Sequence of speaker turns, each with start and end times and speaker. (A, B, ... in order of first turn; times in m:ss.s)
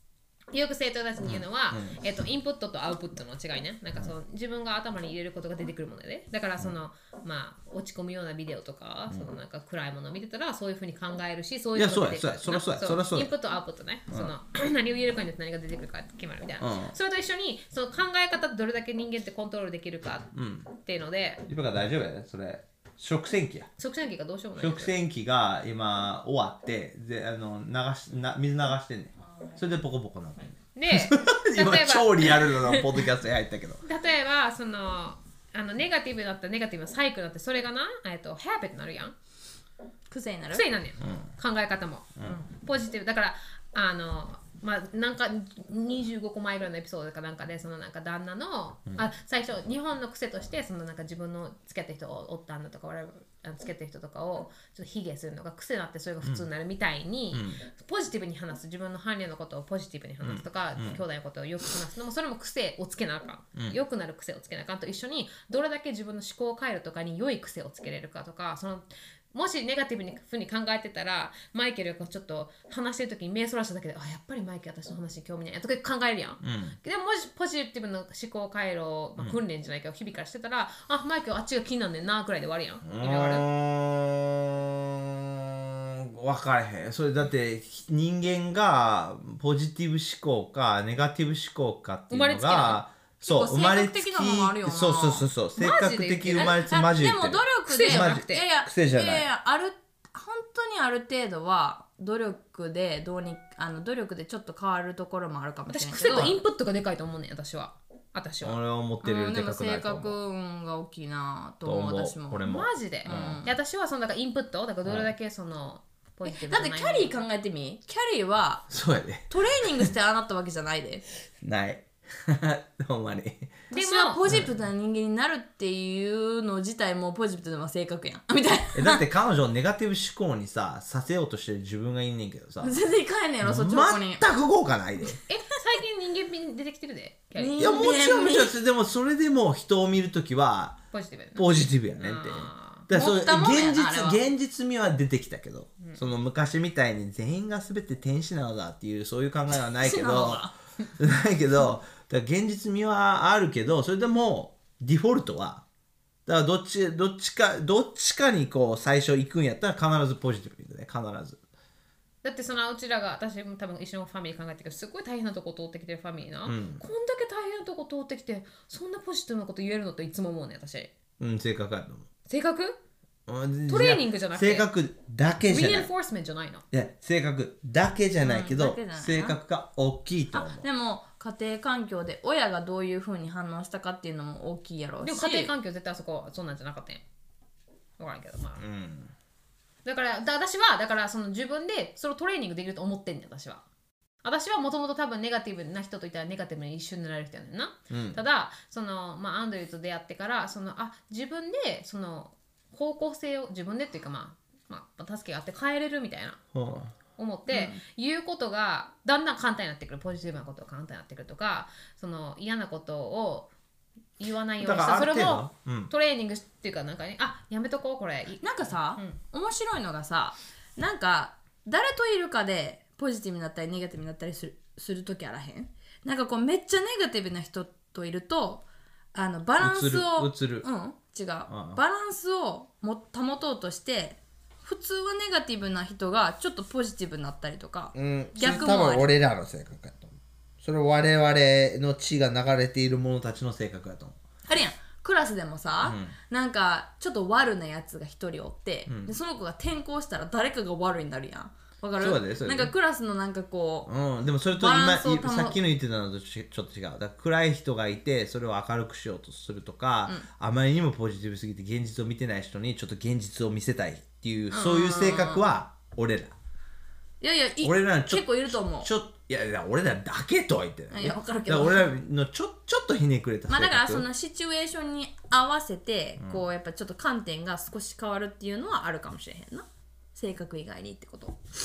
0:00.5-0:21.4 A
0:01.2-0:02.0 B
0:11.7-0:13.3 B
0:16.6-0:17.0 B
0:20.3-0:20.7 B
0:21.4-0:23.7 B
0:23.8-0:24.9 A
0:24.6-0:33.8 B
0:30.7-0:33.1 A
0:33.8-0:39.1 A
0:40.1-0:40.6 C
0:40.5-1:23.4 A
0:41.0-0:41.3 B
0:57.3-0:57.6 B
1:00.2-1:01.0 B
1:16.4-1:16.8 B
1:22.8-1:39.3 B
1:32.1-1:32.8 A
1:33.2-1:35.3 C
1:35.6-1:36.6 A
1:36.4-1:46.4 C
1:37.7-1:38.4 A
1:45.7-1:48.6 A
1:48.4-1:50.2 B
1:49.0-1:52.5 C
1:51.6-1:53.4 B
1:52.4-1:57.2 A
1:53.0-1:53.5 C
1:54.8-1:55.1 B
1:56.2-1:58.6 C
1:58.7-1:59.9 B
1:59.3-2:01.0 C
2:01.4-2:03.6 B
2:03.7-2:04.2 A
2:03.7-2:09.0 C
2:04.2-2:04.5 B
2:08.7-2:12.8 B
2:12.6-2:14.2 C
2:13.4-2:15.2 B
2:15.3-2:17.8 A
2:17.4-2:18.5 C
2:17.6-2:20.8 B
2:20.9-2:22.8 A
2:21.4-2:35.6 B
2:22.9-2:24.2 C
2:25.8-2:26.1 A
2:29.8-2:30.5 C
2:36.2-2:41.4 B
2:42.2-2:50.9 A
2:46.4-2:46.8 B
2:51.2-2:52.1 B
2:52.3-2:52.8 A
2:53.3-2:55.9 B
2:53.7-2:54.7 A
2:55.5-2:56.6 A
2:56.7-3:00.6 B
2:58.2-2:59.4 C
3:00.3-3:05.5 C
3:05.0-3:07.0 A
3:08.0-3:08.6 A
3:08.6-3:09.1 B
3:09.8-3:13.6 A
3:14.2-3:26.4 A
3:17.9-3:18.2 B
3:26.5-3:26.9 B
3:27.2-3:33.5 A
3:27.5-3:27.8 C
3:34.2-3:39.2 A
3:34.6-3:35.9 B
3:38.4-3:59.1 C
3:49.6-3:50.6 B
3:51.5-3:51.8 B
3:57.9-4:04.2 B
4:04.5-4:13.9 C
4:05.8-4:06.1 B
4:08.9-4:09.1 B
4:12.0-4:12.7 B
4:13.9-4:26.3 B
4:14.6-4:15.6 C
4:24.5-4:25.4 C
4:27.2-4:28.9 C
4:27.6-4:34.1 B
4:30.9-4:32.0 C
4:33.5-4:41.4 C